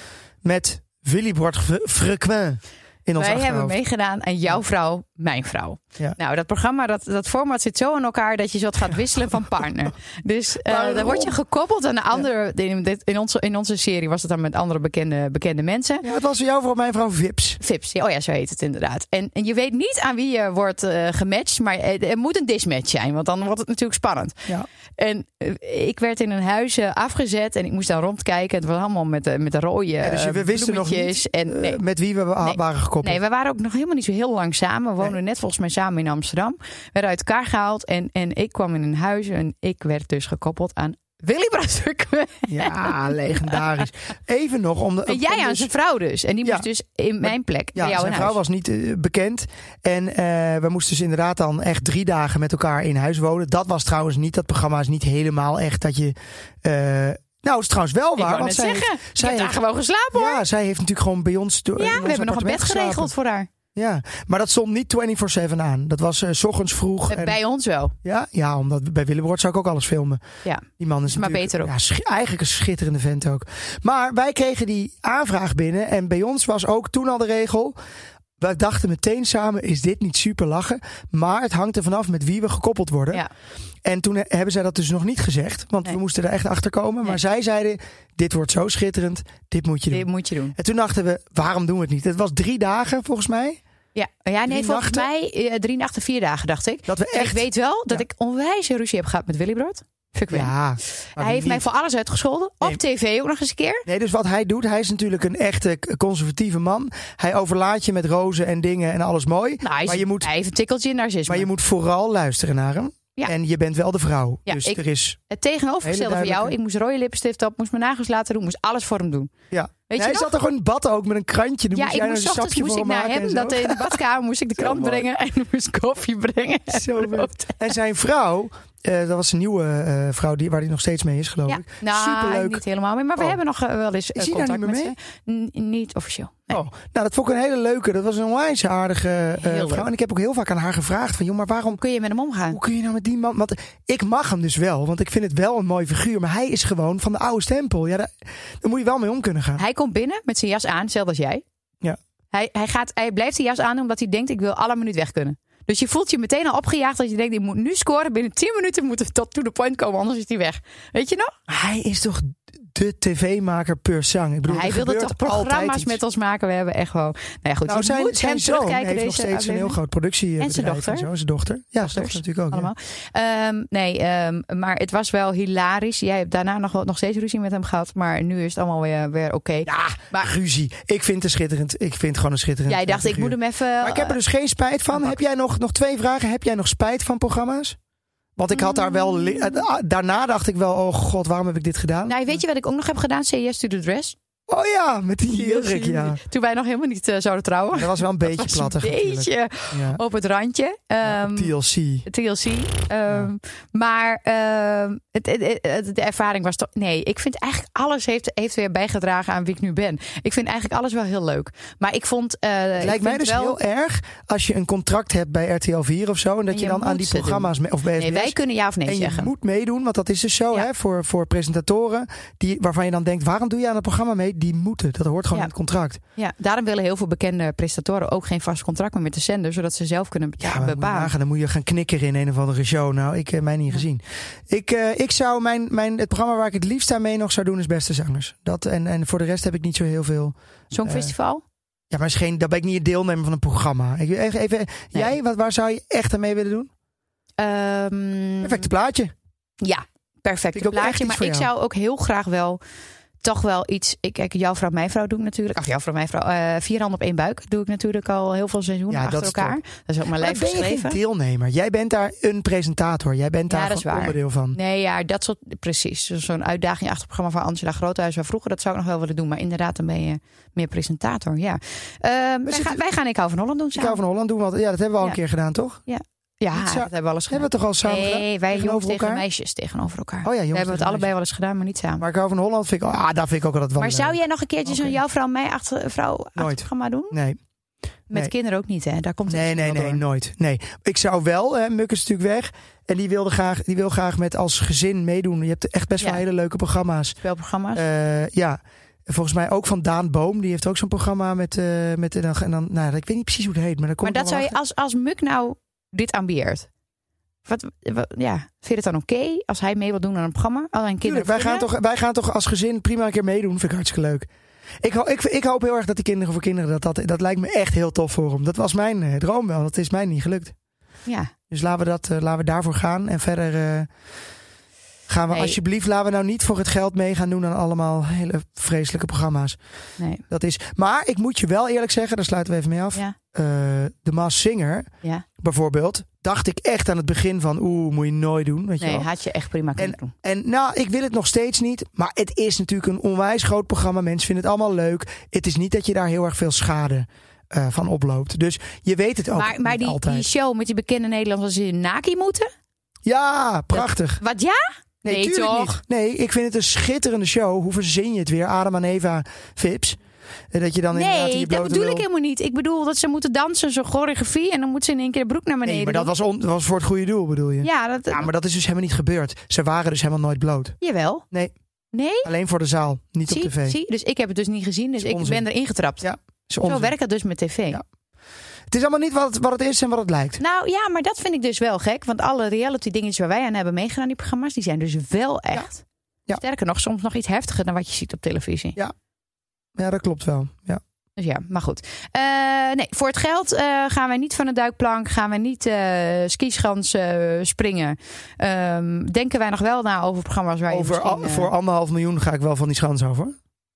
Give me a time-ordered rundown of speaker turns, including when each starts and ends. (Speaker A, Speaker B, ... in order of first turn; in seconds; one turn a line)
Speaker A: 0.4-3.8
Speaker B: 3.2-16.1
Speaker A: 10.7-11.4
Speaker A: 16.0-17.6
Speaker B: 17.6-24.5
Speaker B: 25.0-31.8
Speaker A: 30.0-33.2
Speaker B: 32.4-43.6
Speaker A: 42.5-45.7
Speaker B: 45.1-48.4
Speaker A: 47.2-59.6
Speaker B: 58.2-60.4
Speaker A: 60.1-63.1
Speaker B: 61.8-63.5
Speaker A: 63.8-67.4
Speaker B: 67.1-68.0
Speaker A: 68.0-70.2
Speaker B: 70.5-71.7
Speaker A: 70.8-77.8
Speaker A: 78.4-83.2
Speaker A: 83.8-93.6
Speaker B: 89.9-90.6
Speaker B: 94.0-103.8
Speaker A: 94.5-95.1
Speaker A: 96.9-98.0
Speaker A: 100.3-101.6
Speaker A: 103.8-110.3
Speaker B: 109.6-111.5
Speaker A: 111.3-115.2
Speaker B: 114.5-119.3
Speaker A: 115.8-116.5
Speaker A: 119.5-124.0
Speaker B: 119.9-120.3
Speaker B: 121.7-127.6
Speaker A: 124.6-125.0
Speaker A: 126.7-132.6
Speaker B: 131.5-136.6
Speaker A: 134.2-134.9
Speaker A: 136.5-141.8
Speaker B: 139.4-139.9
Speaker B: 141.7-142.6
Speaker A: 142.5-149.6
Speaker B: 149.6-151.4
Speaker B: 152.3-161.3
Speaker A: 161.5-166.0
Speaker B: 164.5-169.8
Speaker A: 167.7-172.7
Speaker B: 170.4-171.1
Speaker B: 171.8-180.3
Speaker A: 179.7-187.8
Speaker B: 182.7-184.2
Speaker A: 188.4-192.2
Speaker B: 188.5-189.7
Speaker B: 192.1-194.2
Speaker A: 194.5-196.2
Speaker B: 195.3-201.5
Speaker A: 197.7-200.0
Speaker A: 201.0-202.1
Speaker B: 202.1-213.6
Speaker A: 212.8-226.0
Speaker B: 216.5-219.3
Speaker B: 226.2-231.1
Speaker A: 230.4-241.1
Speaker B: 240.7-241.4
Speaker A: 241.9-246.7
Speaker B: 247.4-248.7
Speaker A: 248.4-249.1
Speaker B: 249.6-252.6
Speaker A: 250.5-251.5
Speaker B: 253.2-261.0
Speaker A: 258.9-259.6
Speaker A: 260.2-264.6
Speaker B: 263.5-274.0
Speaker A: 272.5-272.8
Speaker A: 273.8-275.8
Speaker B: 275.9-282.1
Speaker A: 276.5-279.2
Speaker A: 280.2-281.1
Speaker A: 282.0-285.0
Speaker B: 283.8-287.2
Speaker A: 286.4-287.4
Speaker B: 288.1-290.0
Speaker A: 289.3-297.2
Speaker B: 297.2-297.8
Speaker A: 297.8-304.6
Speaker B: 304.0-306.7
Speaker B: 307.5-311.7
Speaker A: 311.0-314.3
Speaker A: 314.8-320.6
Speaker B: 321.1-321.3
Speaker A: 321.5-323.9
Speaker A: 325.1-329.6
Speaker A: 330.3-339.1
Speaker B: 338.8-340.1
Speaker A: 339.8-350.3
Speaker B: 349.3-352.5
Speaker A: 353.1-354.2
Speaker B: 353.7-355.8
Speaker A: 355.0-360.0
Speaker A: 360.5-362.1
Speaker B: 360.9-366.1
Speaker A: 365.6-370.8
Speaker B: 367.6-368.3
Speaker B: 370.8-371.2
Speaker B: 371.9-372.3
Speaker A: 372.2-373.8
Speaker B: 373.3-376.1
Speaker A: 375.0-375.4
Speaker A: 376.0-376.9
Speaker B: 376.6-377.8
Speaker A: 378.7-380.4
Speaker B: 380.4-388.8
Speaker A: 389.8-390.8
Speaker B: 391.2-401.5
Speaker A: 400.7-403.4